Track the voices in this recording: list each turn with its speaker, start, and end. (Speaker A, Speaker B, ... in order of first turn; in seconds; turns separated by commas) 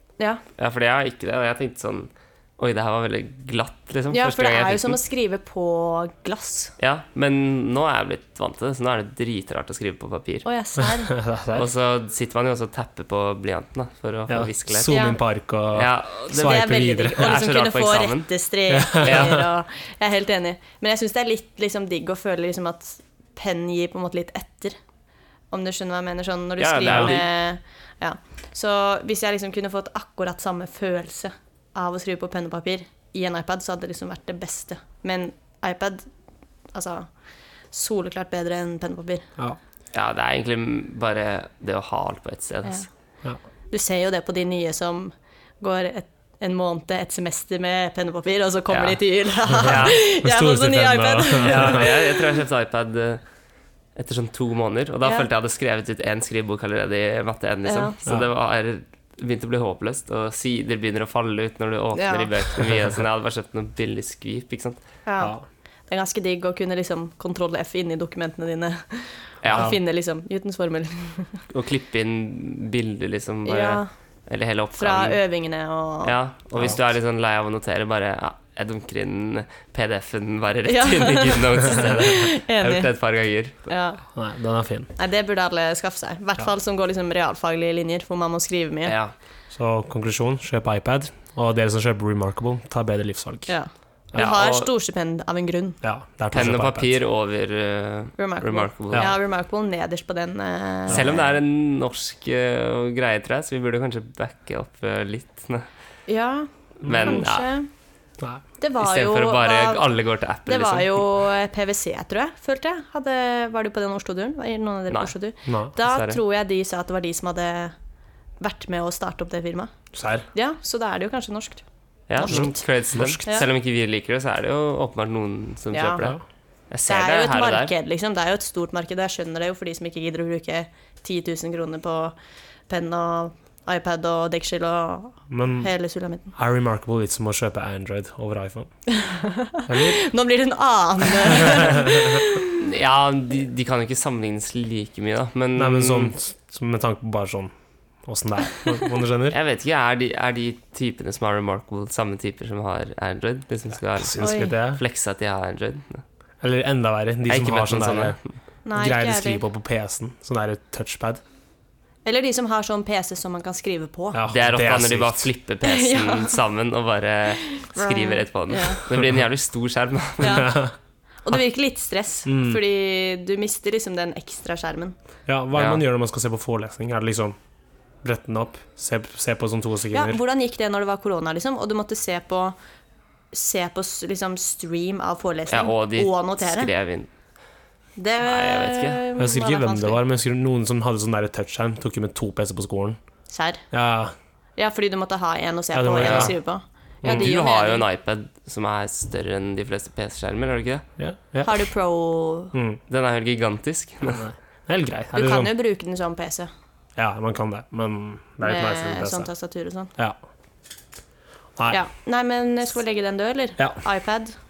Speaker A: 0.6-5.0, Speaker B: 4.1-6.7, Speaker A: 6.8-10.5, Speaker B: 10.4-11.1, Speaker C: 11.1-11.7, Speaker A: 11.5-15.0, Speaker C: 14.3-17.3, Speaker B: 14.9-15.2, Speaker A: 15.7-18.3, Speaker B: 16.3-24.8, Speaker C: 18.7-19.4, Speaker A: 19.0-19.4, Speaker B: 25.5-36.1, Speaker A: 26.6-27.3, Speaker C: 26.9-27.1, Speaker B: 36.7-37.1, Speaker B: 37.7-39.3, Speaker A: 39.9-42.9, Speaker B: 43.7-52.2, Speaker A: 48.7-50.0, Speaker C: 49.5-51.9, Speaker A: 51.4-53.2, Speaker A: 54.0-64.8, Speaker B: 57.6-57.9, Speaker B: 62.0-62.3, Speaker B: 65.0-65.3, Speaker C: 65.2-65.4, Speaker B: 65.9-71.4, Speaker A: 69.4-69.7, Speaker A: 71.5-75.2, Speaker B: 73.5-73.9, Speaker B: 74.8-76.1, Speaker A: 76.0-83.6, Speaker B: 80.7-82.9, Speaker B: 83.7-84.0, Speaker C: 84.1-84.9, Speaker B: 85.0-88.9, Speaker A: 88.8-89.1, Speaker C: 89.5-93.5, Speaker B: 93.5-95.8, Speaker A: 94.1-94.7, Speaker C: 95.8-96.9, Speaker A: 96.3-99.1, Speaker B: 98.2-101.2, Speaker A: 100.9-105.7, Speaker C: 100.9-101.2, Speaker B: 106.1-107.7, Speaker A: 106.8-107.5, Speaker C: 106.8-107.2, Speaker B: 108.6-109.9, Speaker A: 108.8-111.0, Speaker B: 110.5-117.7, Speaker C: 115.5-115.7, Speaker A: 115.8-116.2, Speaker B: 118.4-119.7, Speaker C: 119.9-120.2, Speaker B: 120.3-121.6, Speaker A: 122.1-126.2, Speaker B: 122.2-122.6, Speaker C: 122.3-123.2, Speaker B: 125.7-126.1, Speaker A: 126.7-127.7, Speaker B: 126.9-132.1, Speaker B: 132.7-136.3, Speaker C: 135.3-135.7, Speaker C: 136.3-138.7, Speaker B: 138.9-142.6, Speaker C: 139.7-140.0, Speaker C: 141.5-141.9, Speaker A: 142.6-146.1, Speaker C: 145.6-147.5, Speaker C: 148.0-149.4, Speaker A: 149.3-156.0, Speaker C: 154.0-154.8, Speaker B: 154.2-154.5, Speaker C: 156.4-158.2, Speaker A: 157.3-158.3, Speaker B: 158.6-159.4, Speaker C: 158.7-161.2, Speaker B: 162.0-164.2, Speaker C: 164.1-165.3, Speaker A: 164.3-170.5, Speaker B: 165.6-166.4, Speaker B: 167.4-168.8, Speaker B: 170.2-170.6, Speaker C: 170.3-170.7, Speaker B: 171.2-174.9, Speaker C: 172.2-172.6, Speaker C: 175.3-177.3, Speaker A: 175.5-175.8, Speaker C: 178.0-180.2, Speaker B: 179.9-182.6, Speaker B: 183.3-186.7, Speaker A: 185.5-187.1, Speaker B: 188.0-190.0, Speaker A: 188.2-189.0, Speaker C: 189.2-193.0, Speaker B: 193.3-193.6, Speaker C: 193.7-194.1, Speaker B: 194.6-197.8, Speaker C: 195.7-196.3, Speaker A: 196.0-196.3, Speaker C: 197.0-197.3, Speaker A: 197.0-200.8, Speaker C: 201.0-201.6, Speaker B: 201.4-202.5, Speaker C: 202.5-202.8, Speaker A: 202.9-204.2, Speaker C: 204.1-205.5, Speaker B: 205.1-206.5, Speaker C: 206.9-209.3, Speaker B: 208.4-209.9, Speaker B: 211.7-214.3